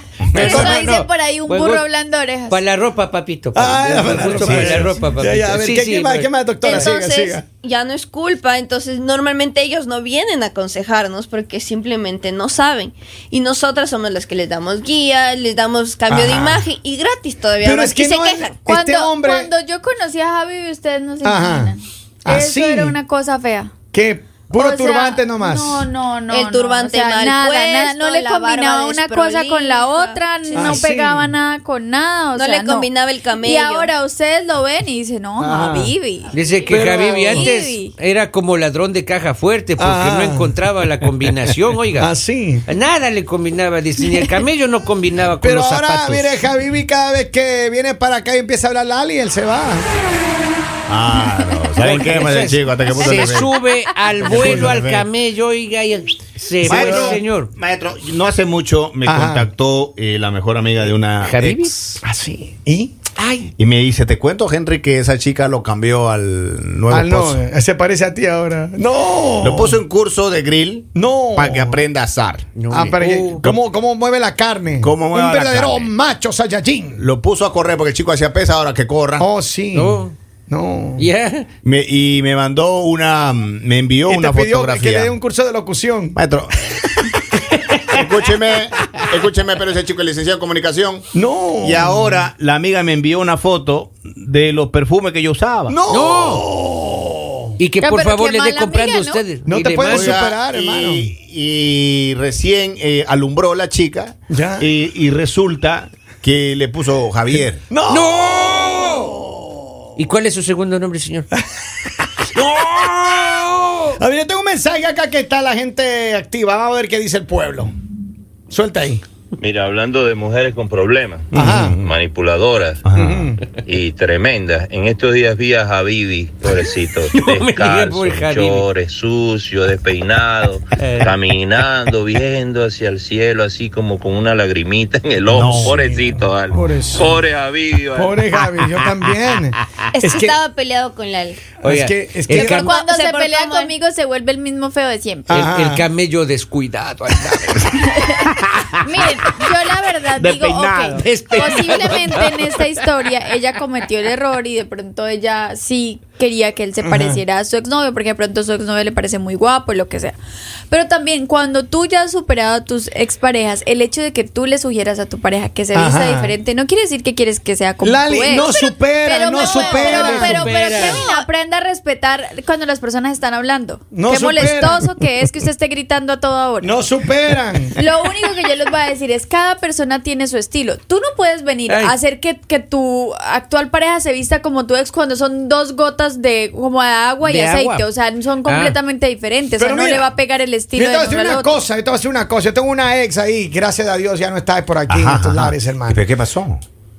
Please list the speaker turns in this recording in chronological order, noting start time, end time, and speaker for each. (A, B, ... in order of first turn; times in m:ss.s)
0:00.3-0:00.6 A
0:00.3-0:01.9 B
0:00.3-0:02.6 C
0:00.4-0:00.8 D
0:02.5-0:06.3 B
0:03.5-0:07.4 D
0:06.6-0:18.6 E
0:16.1-0:16.7 D
0:17.6-0:19.5 D
0:18.7-0:23.7 C
0:21.2-0:23.0 D
0:23.9-0:25.9 D
0:24.5-0:36.4 C
0:26.3-0:30.8 E
0:30.6-0:31.3 D
0:32.3-0:33.9 E
0:35.4-0:35.9 D
0:36.3-0:42.1 B
0:36.7-0:37.5 D
0:37.2-0:37.9 C
0:39.8-0:40.6 D
0:42.0-0:42.7 D
0:42.7-0:46.4 B
0:45.4-0:49.9 D
0:50.9-0:53.5 A
0:51.8-0:57.5 B
0:54.2-0:55.1 A
0:56.6-0:57.2 D
0:56.6-1:01.8 A
0:59.1-0:59.5 D
1:01.2-1:02.0 B
1:02.0-1:02.9 D
1:03.2-1:03.5 B
1:03.6-1:07.4 A
1:06.9-1:09.8 D
1:09.4-1:12.4 A
1:11.0-1:11.8 D
1:12.6-1:13.5 B
1:12.7-1:17.0 D
1:14.8-1:15.9 A
1:17.0-1:19.3 A
1:19.2-1:21.1 D
1:19.7-1:20.1 B
1:21.0-1:21.5 B
1:21.6-1:25.1 A
1:24.1-1:26.2 D
1:26.2-1:27.4 A
1:27.9-1:31.1 A
1:31.1-1:32.2 D
1:31.6-1:35.8 A
1:35.7-1:37.6 D
1:35.9-1:36.4 B
1:37.6-1:40.2 B
1:37.8-1:39.2 C
1:39.5-1:41.1 D
1:39.9-1:47.6 A
1:44.3-1:44.7 D
1:47.7-1:49.8 D
1:47.9-1:49.1 B
1:50.0-1:51.3 B
1:51.3-1:52.1 D
1:52.4-1:53.9 B
1:54.0-1:57.7 D
1:58.5-1:59.0 D
1:59.4-2:02.8 F
2:01.3-2:01.8 D
2:01.4-2:01.9 A
2:02.8-2:03.3 A
2:03.0-2:03.4 D
2:03.6-2:18.2 F
2:07.0-2:08.7 B
2:10.8-2:11.2 B
2:15.3-2:16.6 A
2:15.3-2:15.9 D
2:16.5-2:17.3 D
2:18.0-2:20.4 D
2:19.9-2:21.4 E
2:21.6-2:22.7 D
2:21.6-2:22.7 B
2:22.3-2:23.7 E
2:22.6-2:25.4 C
2:25.3-2:25.9 D
2:25.3-2:28.3 B
2:27.9-2:28.2 C
2:28.8-2:40.2 C
2:30.2-2:31.9 A
2:31.0-2:32.7 B
2:36.8-2:37.2 D
2:40.7-2:56.7 C
2:45.7-2:46.4 D
2:47.8-2:50.5 D
2:49.4-2:49.9 E
2:49.7-2:51.0 B
2:50.4-2:51.3 E
2:53.9-2:55.0 D
2:56.6-2:57.8 D
2:57.8-3:11.6 C
3:01.7-3:02.0 B
3:07.2-3:07.9 B
3:08.4-3:08.8 B
3:09.6-3:10.1 D
3:10.7-3:16.0 D
3:14.9-3:16.6 A